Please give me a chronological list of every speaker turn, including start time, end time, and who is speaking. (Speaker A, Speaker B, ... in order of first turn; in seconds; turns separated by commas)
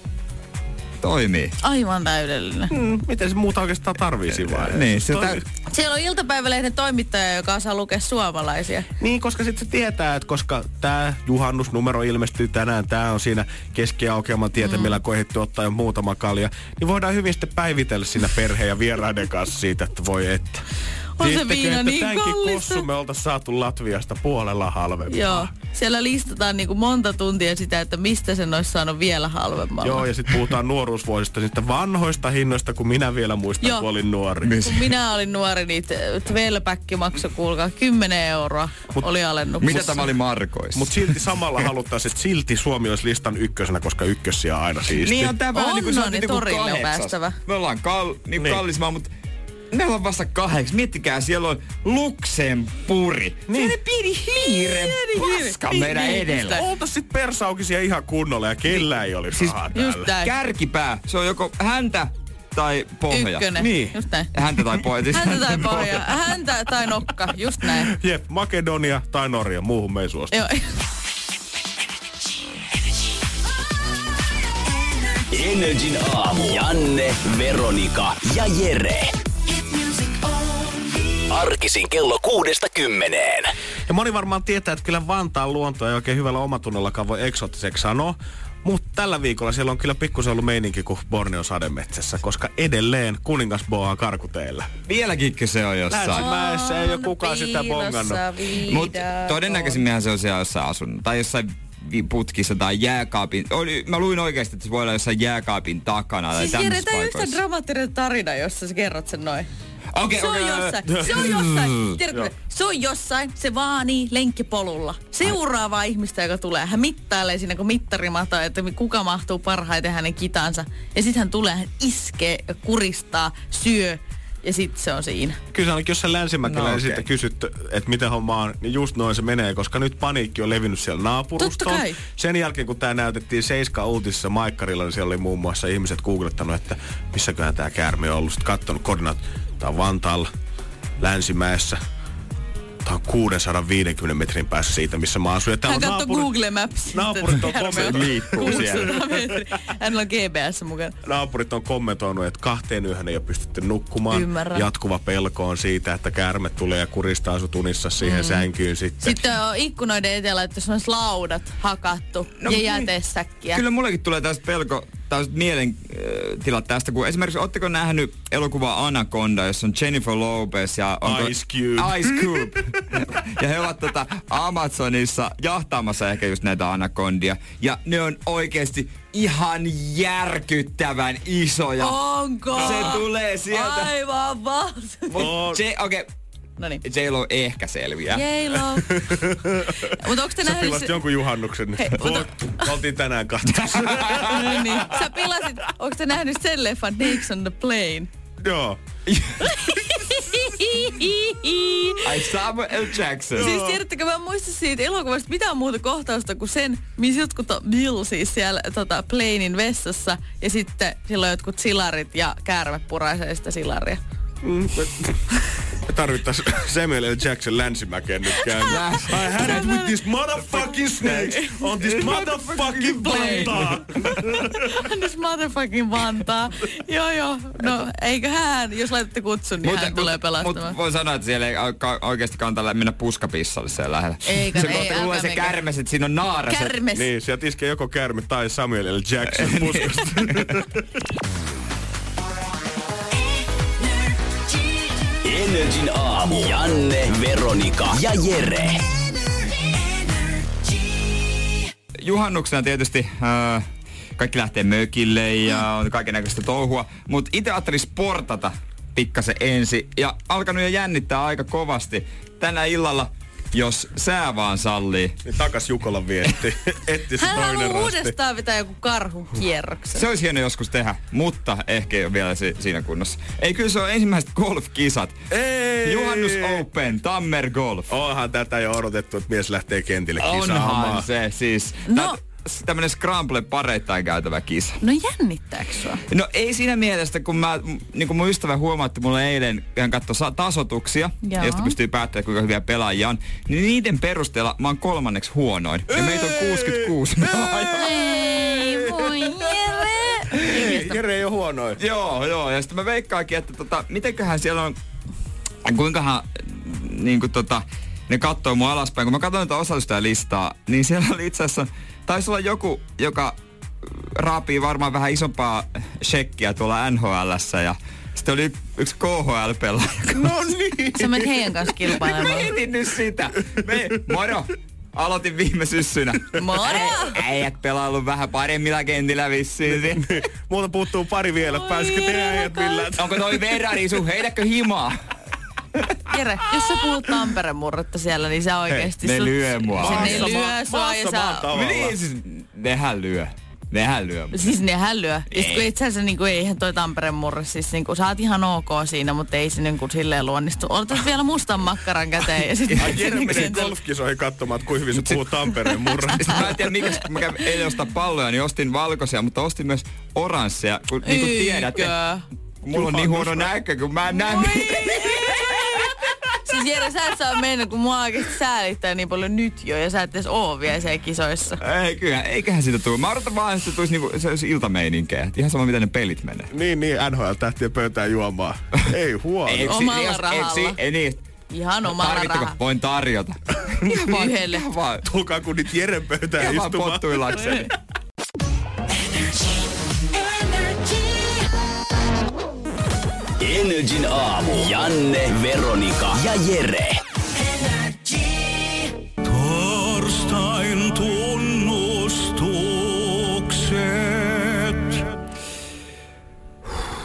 Speaker A: 1.0-1.6, Speaker B: 1.6-2.7, Speaker C: 2.7-5.4, Speaker A: 4.4-5.4, Speaker B: 5.7-8.9, Speaker C: 9.0-20.6, Speaker B: 14.6-15.0, Speaker B: 21.2-22.9, Speaker C: 21.2-25.5, Speaker B: 25.1-30.1, Speaker C: 29.8-34.5, Speaker B: 33.6-33.9, Speaker A: 34.4-34.9, Speaker B: 34.6-40.0, Speaker A: 39.6-41.1, Speaker C: 40.7-45.4, Speaker A: 45.0-49.1, Speaker B: 45.5-47.4, Speaker A: 49.7-56.6, Speaker C: 53.5-53.8, Speaker B: 53.5-56.6, Speaker C: 56.5-60.1, Speaker B: 59.7-60.3, Speaker A: 60.1-66.0, Speaker B: 63.1-64.3, Speaker B: 65.1-67.9, Speaker C: 67.9-70.3, Speaker B: 70.3-70.6, Speaker D: 75.3-79.1, Speaker D: 81.3-83.5, Speaker C: 83.9-94.7, Speaker A: 94.9-96.3, Speaker C: 95.9-98.2, Speaker B: 96.1-99.8, Speaker A: 98.6-107.4, Speaker B: 106.3-109.5, Speaker A: 109.9-111.8, Speaker B: 110.1-125.4, Speaker C: 125.5-140.3, Speaker A: 126.4-127.1, Speaker B: 131.4-132.0, Speaker C: 141.0-141.8, Speaker C: 142.8-146.3, Speaker B: 145.7-151.0, Speaker C: 146.9-148.9, Speaker A: 147.4-148.9, Speaker C: 151.0-159.2, Speaker B: 154.1-154.7, Speaker B: 158.0-158.5, Speaker B: 159.0-163.6, Speaker A: 162.4-162.9, Speaker A: 163.5-182.0, Speaker C: 171.0-172.5, Speaker B: 181.8-185.3, Speaker A: 182.5-183.9, Speaker A: 185.1-186.1, Speaker C: 185.2-185.6, Speaker A: 186.8-188.3, Speaker B: 188.1-188.9, Speaker C: 188.9-189.8, Speaker B: 189.9-190.9, Speaker C: 190.4-194.9, Speaker B: 191.8-192.7, Speaker B: 194.2-198.1, Speaker C: 198.4-198.8, Speaker B: 199.4-202.2, Speaker A: 202.0-203.5, Speaker C: 203.4-203.8, Speaker B: 203.4-214.0, Speaker C: 214.4-215.3, Speaker C: 215.8-224.7, Speaker A: 218.7-219.7, Speaker B: 218.7-220.0, Speaker B: 220.7-221.6, Speaker A: 221.8-223.8, Speaker B: 223.0-223.6, Speaker B: 224.5-230.8, Speaker A: 229.6-236.8, Speaker B: 234.2-235.6, Speaker B: 236.5-237.1, Speaker C: 236.9-240.7, Speaker A: 239.4-240.3, Speaker D: 245.2-248.8, Speaker A: 252.0-253.7, Speaker A: 254.2-265.2, Speaker C: 265.2-268.1, Speaker B: 267.2-270.1, Speaker A: 269.9-275.2, Speaker C: 275.3-276.7, Speaker A: 275.9-277.9, Speaker C: 277.9-281.1, Speaker A: 280.2-284.8, Speaker B: 281.9-282.2, Speaker B: 284.8-286.0, Speaker A: 286.1-298.5, Speaker B: 291.2-291.8, Speaker C: 296.0-296.8, Speaker B: 297.7-301.0, Speaker C: 300.4-301.8, Speaker A: 301.8-304.8, Speaker A: 305.6-320.4, Speaker C: 320.1-321.4, Speaker B: 320.9-322.5, Speaker A: 321.9-330.1, Speaker B: 326.4-327.2, Speaker C: 329.7-333.6, Speaker B: 331.4-332.9, Speaker A: 333.0-335.0, Speaker B: 336.1-341.5, Speaker A: 339.0-340.4, Speaker C: 339.7-342.0, Speaker A: 341.5-344.4, Speaker B: 344.3-353.7, Speaker A: 345.3-345.7, Speaker A: 352.7-353.6, Speaker C: 352.8-356.5, Speaker A: 354.9-355.3, Speaker A: 356.0-362.0, Speaker B: 361.0-362.2, Speaker A: 362.6-365.9, Speaker C: 362.7-363.5, Speaker B: 364.1-371.6, Speaker A: 371.6-376.5, Speaker C: 376.5-379.7, Speaker A: 379.5-381.2, Speaker B: 379.7-380.8, Speaker B: 381.5-382.6, Speaker A: 381.9-385.1, Speaker B: 383.9-384.7, Speaker C: 385.0-387.6, Speaker A: 386.4-387.7, Speaker D: 393.4-397.0, Speaker E: 399.2-405.0